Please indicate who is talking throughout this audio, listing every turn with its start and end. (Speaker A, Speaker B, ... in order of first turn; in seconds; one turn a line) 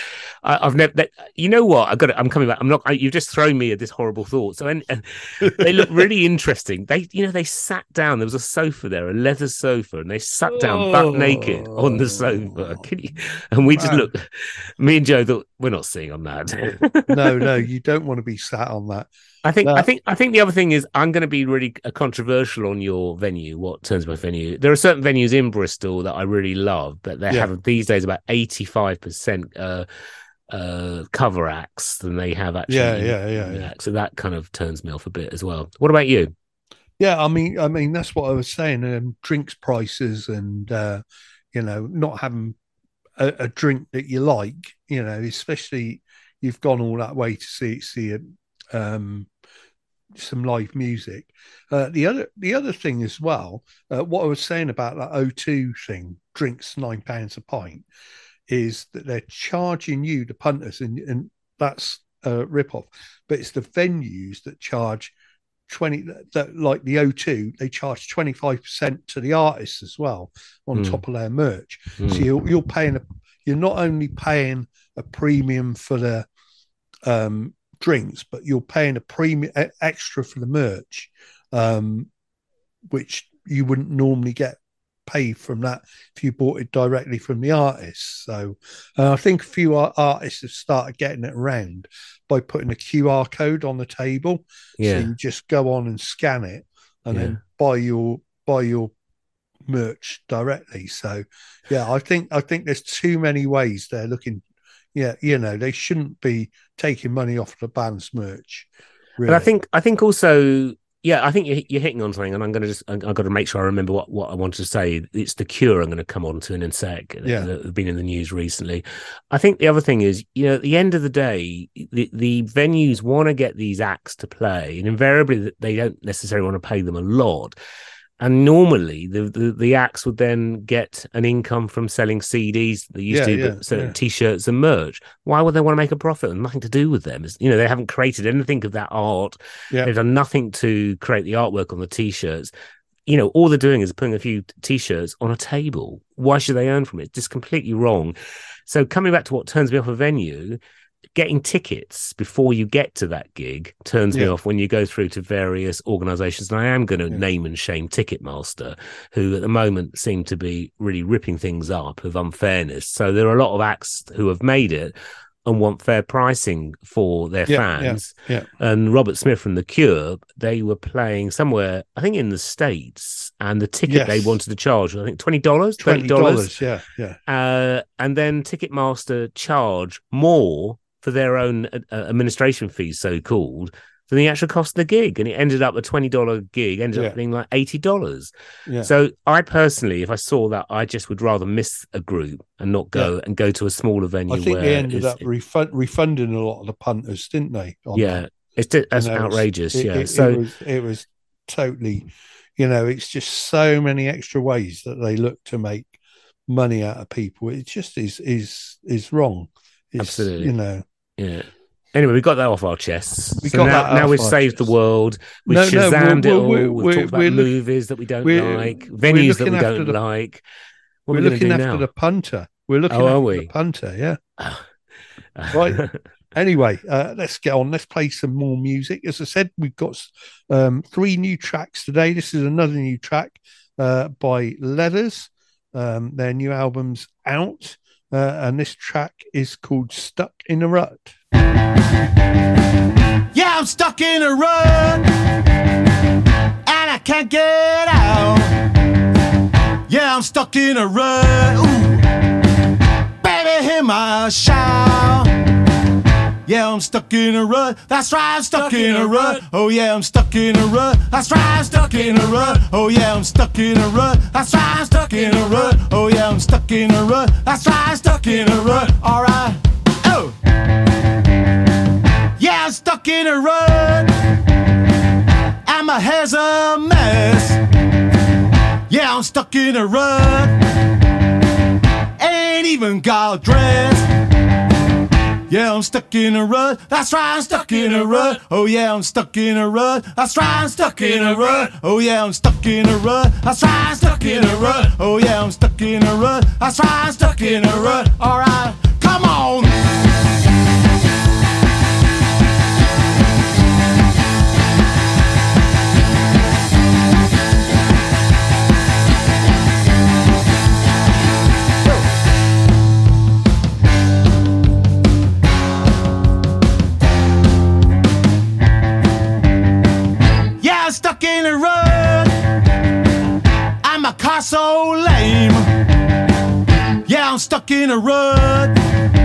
Speaker A: 0.4-17.4
Speaker B: 5.4-5.9
Speaker B: 10.5-12.8
Speaker B: 13.7-14.1
Speaker B: 17.1-19.1
Speaker A: 19.4-29.9
Speaker B: 19.6-19.9
Speaker A: 30.5-36.3
Speaker B: 32.7-33.7
Speaker B: 37.0-42.6
Speaker B: 43.2-49.3
Speaker B: 50.1-57.9
Speaker B: 58.5-65.1
Speaker B: 65.7-76.3
Speaker A: 70.8-71.0
Speaker A: 72.0-72.2
Speaker B: 77.1-82.1
Speaker B: 82.9-98.9
Speaker A: 94.8-95.1
Speaker A: 97.1-97.4
Speaker B: 99.7-109.5
Speaker A: 109.3-127.6
Speaker A: 128.2-142.5
Speaker B: 133.1-133.9
Speaker A: 143.1-148.2
Speaker A: 148.7-150.6
Speaker A: 151.2-164.9
Speaker A: 165.5-176.5
Speaker B: 167.5-168.5
Speaker B: 173.9-174.4
Speaker B: 175.8-177.2
Speaker A: 177.3-195.3
Speaker B: 188.7-188.9
Speaker B: 194.3-198.2
Speaker A: 197.9-200.4
Speaker B: 198.9-205.9
Speaker B: 206.5-210.8
Speaker A: 210.0-210.5
Speaker A: 211.2-220.4
Speaker B: 213.4-214.6
Speaker B: 215.5-217.5
Speaker B: 218.2-220.0
Speaker A: 221.1-221.9
Speaker B: 221.1-224.2
Speaker A: 222.9-223.5
Speaker A: 224.4-224.7
Speaker A: 225.4-226.0
Speaker B: 225.5-225.8
Speaker B: 226.3-241.1
Speaker C: 243.3-245.1
Speaker C: 246.7-248.6
Speaker C: 249.9-252.0
Speaker C: 253.2-255.3
Speaker C: 256.5-270.4
Speaker C: 272.4-274.1
Speaker C: 275.6-277.6
Speaker C: 278.9-280.6
Speaker C: 282.2-284.1
Speaker C: 285.5-299.8
Speaker C: 320.6-322.4
Speaker C: 323.8-325.7
Speaker C: 327.1-328.8